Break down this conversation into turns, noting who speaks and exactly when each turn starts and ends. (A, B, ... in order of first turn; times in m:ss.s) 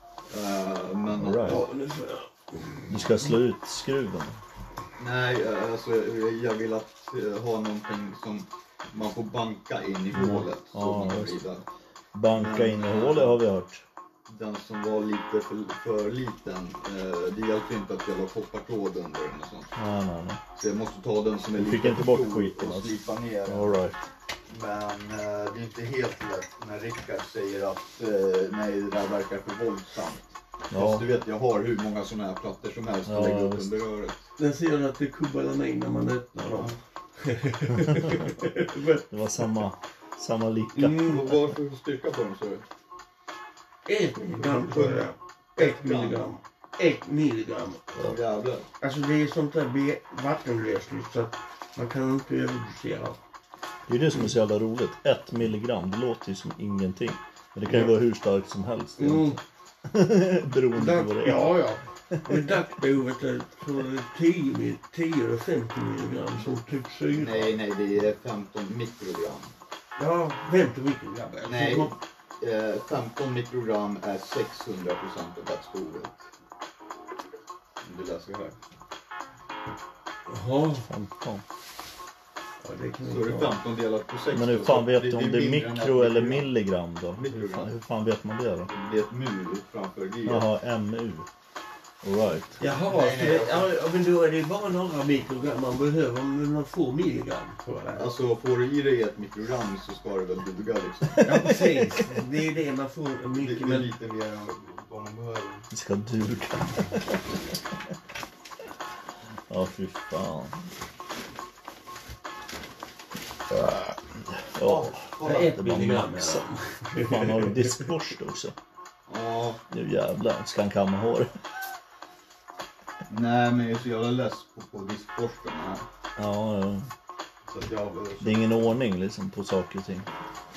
0:00.3-0:01.6 A
0:01.2-0:01.6 B
0:01.4-0:03.0 C
0:02.9-0:04.4 B
0:05.0-0:11.6 A
0:10.1-0:11.3 B
0:12.1-0:13.8 B
0:12.3-0:13.4 A
0:14.3-0:19.7 A
0:19.8-0:20.4 B
0:20.5-0:23.8 A
0:21.6-0:22.9 B
0:23.5-0:24.0 B
0:24.5-0:34.3 A
0:30.7-0:31.0 B
0:33.0-0:33.7 B
0:34.4-0:39.0 C
0:39.1-0:41.2 B
0:40.7-0:41.3 C
0:41.0-0:42.6 A
0:43.8-0:48.1 C
0:44.3-0:45.0 A
0:45.6-0:46.3 A
0:47.9-0:48.7 A
0:48.8-0:53.2 C
0:53.9-1:01.5 B
0:59.0-0:59.4 C
1:00.7-1:07.6 C
1:07.1-1:09.5 A
1:10.0-1:11.9 C
1:11.4-1:16.2 A
1:17.8-1:18.6 A
1:20.3-1:20.9 C
1:20.9-1:21.4 B
1:22.6-1:23.6 C
1:23.0-1:26.5 A
1:24.3-1:28.7 B
1:27.2-1:27.7 A
1:28.7-1:30.5 A
1:30.2-1:31.3 B
1:32.0-1:32.6 B
1:32.6-1:38.1 C
1:32.8-1:33.7 A
1:38.0-1:41.5 A
1:41.2-1:42.0 B
1:41.2-1:43.9 C
1:43.3-1:45.7 A
1:45.7-1:47.5 B
1:49.5-1:50.6 B
1:53.5-1:58.5 B
1:54.6-1:55.5 A
1:55.2-1:57.8 C
1:59.1-1:59.6 A
1:59.7-2:01.3 B
2:03.1-2:05.8 A
2:06.2-2:06.9 B
2:07.4-2:08.7 A
2:08.2-2:10.1 B